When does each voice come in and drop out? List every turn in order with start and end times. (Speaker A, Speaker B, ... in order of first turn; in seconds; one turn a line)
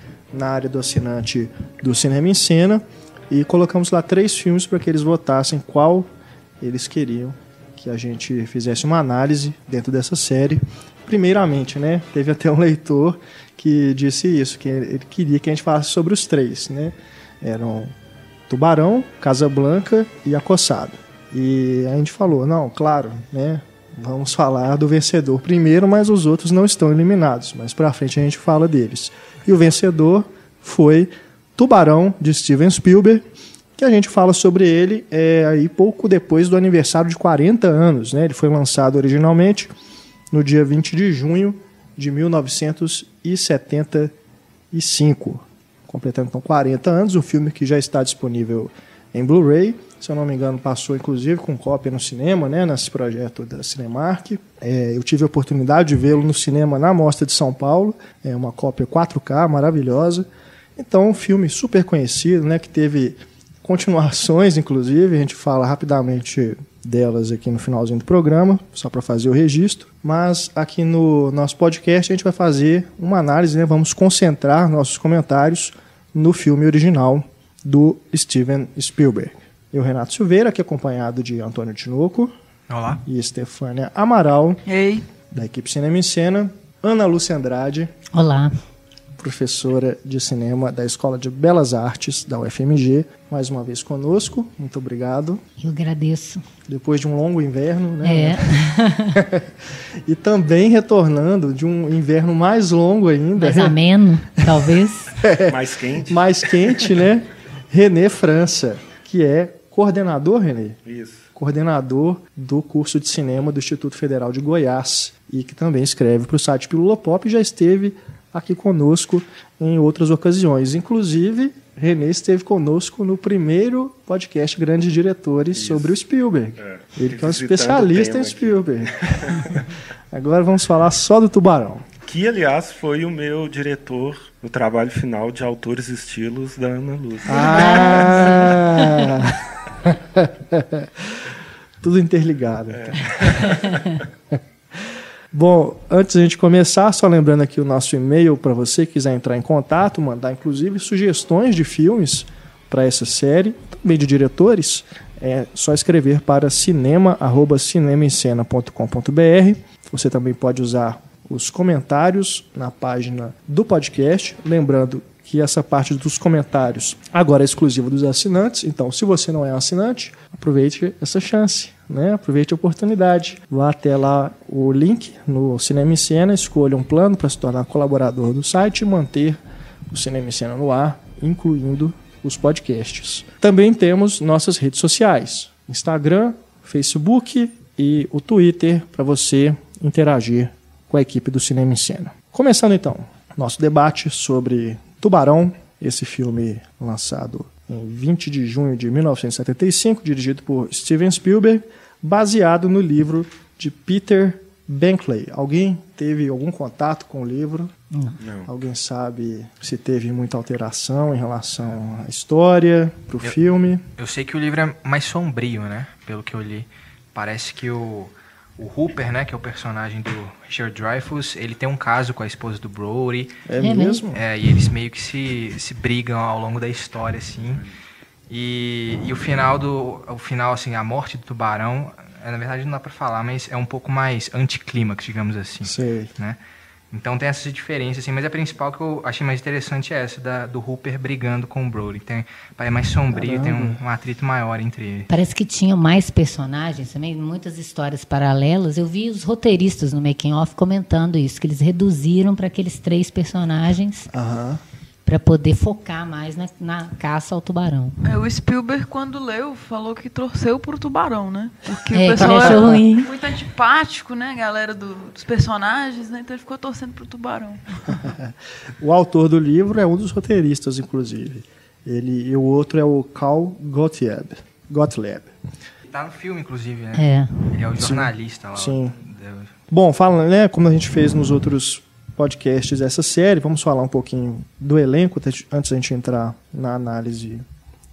Speaker A: 0.3-17.9
Speaker A: 18.5-33.2
Speaker A: 33.8-39.7
Speaker A: 40.3-44.1
Speaker A: 44.7-82.3
Speaker B: 82.7-83.0
Speaker A: 83.0-84.6
Speaker C: 84.7-85.0
Speaker A: 85.3-87.9
Speaker D: 88.1-88.5
Speaker A: 89.2-95.4
Speaker D: 95.6-96.4
Speaker A: 96.7-98.5
Speaker D: 98.0-99.2
Speaker A: 99.1-103.8
Speaker D: 103.4-105.1
Speaker A: 104.4-110.8
Speaker E: 105.5-107.0
Speaker E: 110.8-111.2
Speaker A: 111.3-131.8
Speaker E: 125.5-125.9
Speaker E: 126.6-129.7
Speaker E: 132.0-138.5
Speaker A: 137.3-141.2
Speaker D: 137.3-138.7
Speaker A: 141.8-143.4
Speaker E: 142.7-144.0
Speaker D: 143.4-143.9
Speaker A: 144.3-207.7
Speaker D: 207.9-208.2
Speaker E: 208.2-208.5
Speaker A: 208.4-213.8
Speaker B: 214.0-223.4
Speaker A: 223.5-224.2
Speaker D: 223.6-224.0
Speaker B: 224.1-227.7
Speaker B: 228.3-236.4
Speaker A: 235.6-236.1
Speaker B: 236.9-245.1
Speaker A: 243.1-243.8
Speaker D: 245.1-254.1
Speaker A: 254.1-254.6
Speaker D: 255.1-258.0
Speaker C: 258.0-268.1
Speaker D: 261.9-263.1
Speaker A: 262.2-262.8
Speaker A: 268.0-275.3
Speaker B: 275.9-279.5
Speaker D: 276.9-277.4
Speaker A: 277.8-278.9
Speaker A: 279.7-287.4